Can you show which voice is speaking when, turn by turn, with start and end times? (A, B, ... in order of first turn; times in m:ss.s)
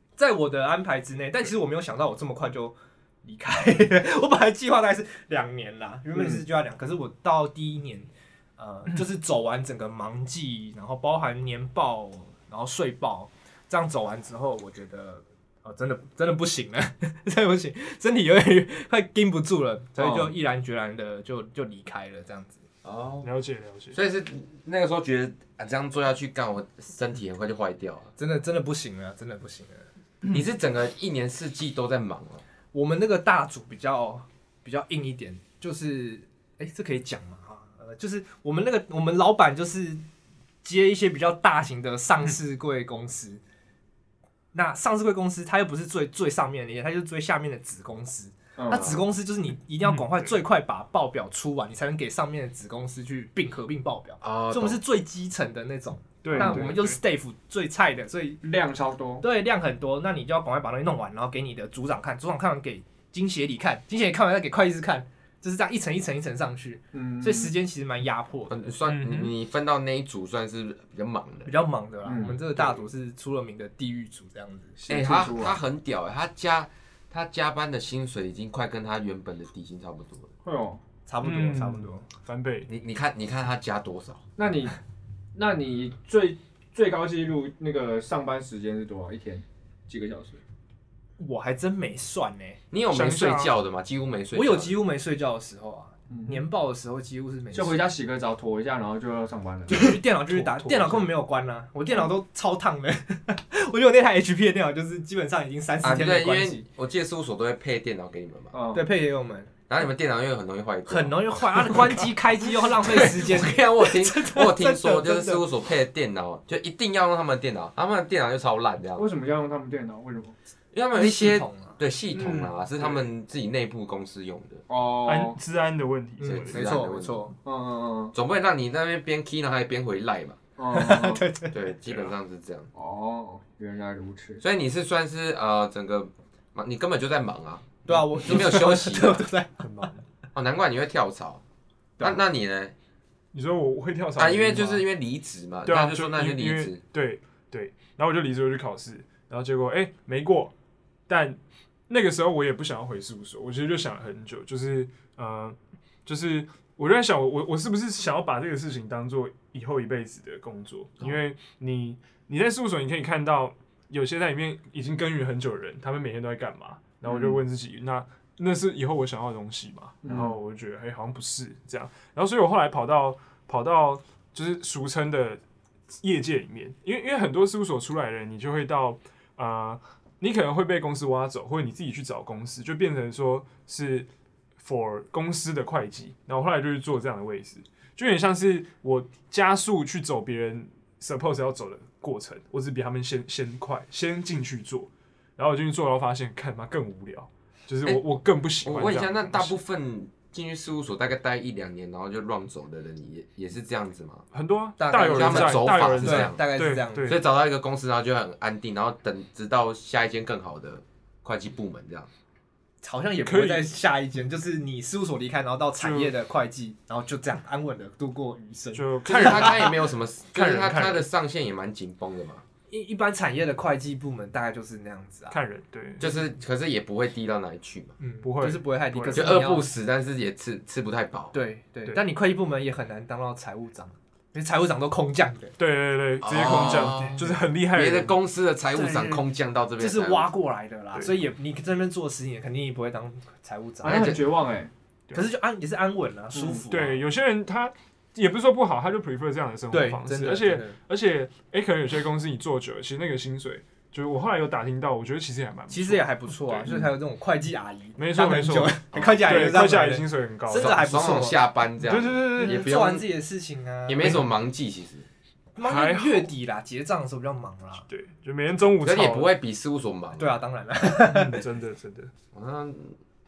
0:00.2-0:22.6 A
0:06.1-0:06.4 B
0:20.0-0:20.4 B
0:22.8-0:23.3 C
0:23.2-0:24.0 D
0:23.9-0:28.1 C
0:28.2-0:29.9 A
0:30.3-0:32.4 C
0:32.7-0:40.0 A
0:40.6-0:43.4 A
0:44.5-0:58.4 A
0:48.6-0:48.9 B
0:48.7-0:49.0 C
0:49.8-0:50.4 D
0:54.2-0:54.8 C
0:56.2-0:57.0 D
0:56.3-0:56.8 B
0:58.4-0:59.2 B
0:59.2-1:08.7 A
1:06.9-1:07.5 B
1:08.5-1:11.5 C
1:08.9-1:09.3 D
1:11.5-1:14.8 A
1:12.0-1:12.4 B
1:14.8-1:15.6 B
1:14.9-1:20.3 C
1:20.4-1:20.8 B
1:21.1-1:22.0 A
1:21.2-1:22.7 D
1:22.7-1:24.2 C
1:24.4-1:24.8 B
1:25.3-1:30.4 B
1:31.2-1:32.6 A
1:32.7-1:34.8 C
1:32.9-1:33.5 D
1:34.3-1:37.9 A
1:36.1-1:36.4 B
1:37.5-1:40.0 B
1:39.7-1:46.6 A
1:40.3-1:41.1 D
1:45.8-1:48.5 C
1:48.5-1:48.8 B
1:48.7-1:49.6 A
1:49.7-1:51.8 C
1:50.9-1:55.4 A
1:52.9-1:59.1 C
1:59.0-2:00.4 B
2:00.7-2:04.6 C
2:00.9-2:02.5 A
2:04.7-2:05.4 B
2:05.0-2:06.6 D
2:06.2-2:07.3 C
2:06.5-2:07.3 A
2:07.4-2:08.1 B
2:08.1-2:10.4 C
2:10.6-2:11.2 B
2:10.7-2:12.1 A
2:11.5-2:12.7 C
2:12.8-2:14.4 B
2:14.4-2:19.3 C
2:17.9-2:19.6 A
2:19.6-2:20.0 D
2:20.4-2:21.4 C
2:22.0-2:22.7 C
2:23.3-2:24.8 D
2:24.2-2:26.8 C
2:25.6-2:30.5 D
2:31.1-2:55.4 D
2:47.1-2:47.4 B
2:50.0-2:50.4 B
2:56.0-3:04.1 D
3:04.6-3:19.6 D
3:18.6-3:24.2 C
3:24.3-3:27.2 D
3:24.8-3:27.2 A
3:25.0-3:32.1 C
3:32.8-3:39.7 A
3:33.2-3:33.7 D
3:35.8-3:36.1 D
3:38.7-3:39.7 D
3:39.0-3:42.4 C
3:40.3-3:41.1 D
3:42.7-3:45.4 A
3:45.3-3:46.1 D
3:46.0-3:48.0 C
3:48.0-3:49.7 A
3:48.2-3:49.4 D
3:49.1-3:51.3 C
3:51.3-3:55.6 A
3:55.6-3:58.1 D
3:56.2-4:00.3 C
3:56.4-3:57.2 A
3:58.7-3:59.2 A
3:59.8-4:04.2 A
4:00.9-4:01.2 D
4:03.8-4:04.7 B
4:03.9-4:04.2 C
4:05.1-4:07.0 A
4:06.3-4:06.6 B
4:06.7-4:16.7 D
4:09.7-4:10.8 A
4:15.7-4:21.4 A
4:18.0-4:20.8 D
4:20.5-4:23.1 C
4:21.8-4:22.7 D
4:22.4-4:24.3 A
4:23.9-4:25.1 C
4:24.0-4:24.3 D
4:25.6-4:27.8 A
4:25.6-4:26.3 D
4:27.8-4:29.3 D
4:28.8-4:30.3 C
4:30.2-4:31.4 A
4:31.0-4:32.1 D
4:32.3-4:33.0 C